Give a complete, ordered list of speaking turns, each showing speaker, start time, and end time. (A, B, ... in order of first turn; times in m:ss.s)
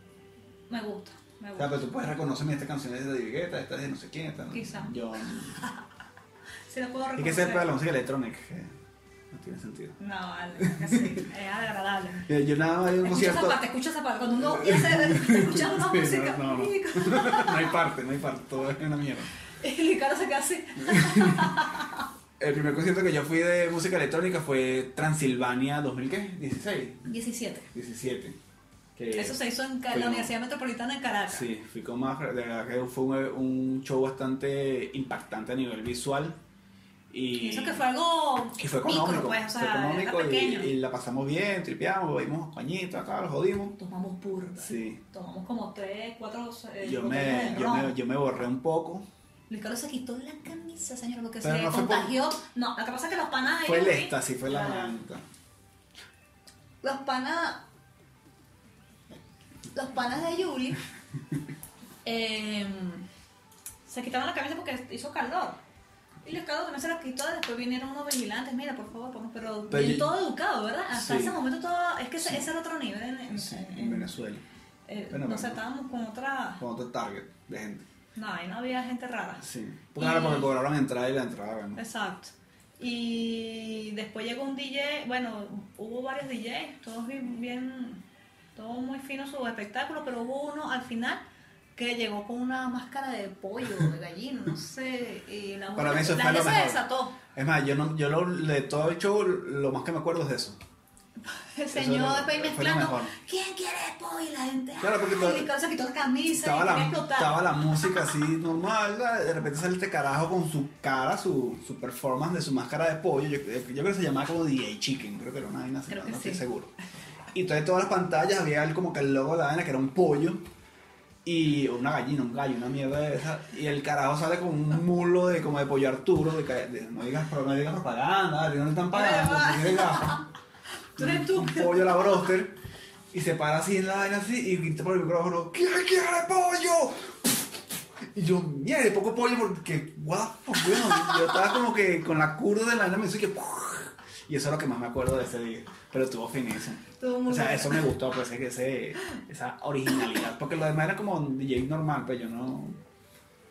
0:00.7-0:01.8 A
0:01.6-0:05.6 B
0:04.5-0:05.8 A
0:06.7-0:07.7 A
0:07.2-0:08.7 B
0:09.3-0:10.0 B
0:10.0-0:12.2 A
0:10.6-0:11.2 B
0:12.2-0:13.6 B
0:13.0-0:17.8 A
0:14.4-0:19.3 B
0:19.6-0:22.1 A
0:20.8-0:21.5 B
0:22.4-0:27.1 B
0:27.0-0:27.7 A
0:27.7-0:28.4 B
0:29.0-0:30.3 B
0:29.1-0:31.5 A
0:31.3-0:36.4 B
0:37.1-0:37.8 B
0:37.4-0:40.7 A
0:38.6-0:43.8 B
0:43.8-0:47.9 A
0:44.6-0:45.0 B
0:46.8-0:49.1 B
0:49.5-0:55.0 A
0:51.4-0:52.1 B
0:53.6-0:55.2 B
0:56.8-0:57.6 A
0:59.7-1:00.8 A
1:02.0-1:03.0 A
1:03.8-1:05.6 A
1:06.2-1:14.1 A
1:09.7-1:10.1 B
1:10.9-1:11.4 B
1:13.3-1:14.4 B
1:14.9-1:16.6 A
1:15.1-1:15.6 B
1:16.6-1:17.9 B
1:18.2-1:19.4 A
1:19.4-1:21.8 B
1:20.0-1:20.5 A
1:21.8-1:28.0 A
1:28.6-1:31.2 A
1:31.8-1:37.2 A
1:35.8-1:36.8 B
1:37.3-1:40.6 B
1:41.2-1:48.2 A
1:41.7-1:43.1 B
1:44.8-1:45.5 B
1:46.3-1:56.7 B
1:55.9-1:56.4 A
1:57.3-2:00.4 B
2:01.2-2:10.2 B
2:08.9-2:10.2 A
2:11.0-2:12.3 A
2:11.0-2:12.6 B
2:13.1-2:17.4 B
2:18.1-2:32.8 B
2:20.8-2:21.3 A
2:27.0-2:27.9 A